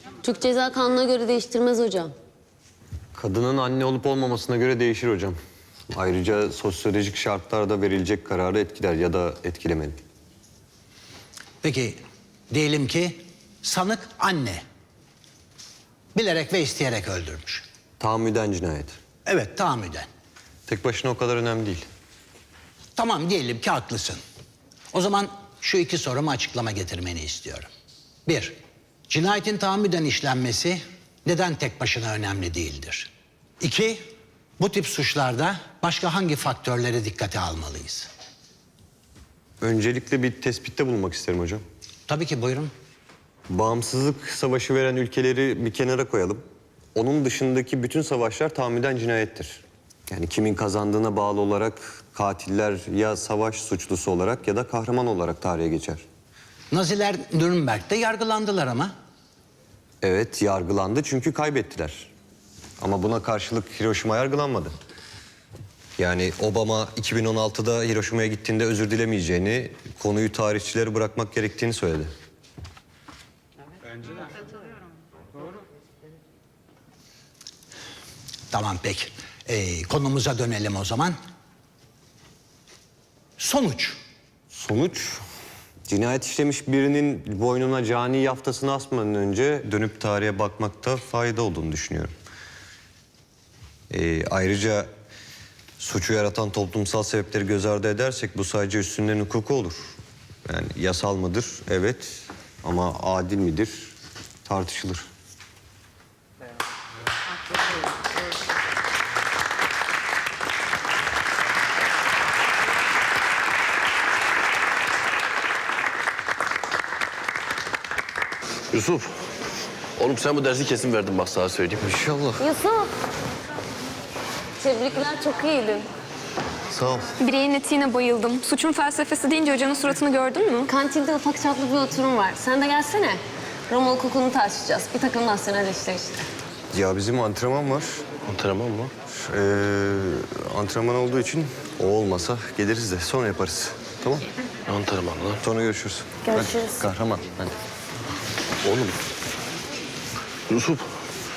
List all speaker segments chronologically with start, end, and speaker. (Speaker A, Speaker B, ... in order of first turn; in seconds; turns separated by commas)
Speaker A: 0.2-2.1, Speaker B: 3.1-5.4, Speaker B: 5.9-10.0, Speaker C: 11.6-12.0, Speaker C: 12.5-14.6, Speaker C: 16.1-17.6, Speaker B: 18.0-19.0, Speaker C: 19.3-20.1, Speaker B: 20.7-21.9, Speaker C: 23.0-24.2, Speaker C: 24.9-27.7, Speaker C: 28.3-28.6, Speaker C: 29.1-33.1, Speaker C: 33.6-34.0, Speaker C: 34.6-38.1, Speaker B: 39.6-41.6, Speaker C: 42.1-42.7, Speaker B: 43.5-46.4, Speaker B: 47.0-56.0, Speaker C: 56.7-58.9, Speaker B: 60.0-62.1, Speaker B: 62.8-64.7, Speaker B: 66.0-72.1, Speaker C: 78.5-81.2, Speaker C: 83.4-84.0, Speaker B: 84.5-85.2, Speaker B: 85.9-92.1, Speaker B: 93.9-94.9, Speaker B: 95.8-103.9, Speaker B: 104.5-105.1, Speaker D: 118.7-119.1, Speaker D: 120.0-121.9, Speaker B: 121.8-122.4, Speaker A: 122.4-122.9, Speaker A: 124.6-125.9, Speaker B: 126.7-127.1, Speaker E: 127.3-130.6, Speaker A: 130.6-136.3, Speaker B: 136.7-138.0, Speaker D: 138.3-138.9, Speaker B: 139.1-144.2, Speaker D: 144.7-145.4, Speaker B: 145.4-147.5, Speaker A: 146.3-146.8, Speaker D: 148.6-149.0, Speaker D: 150.5-150.8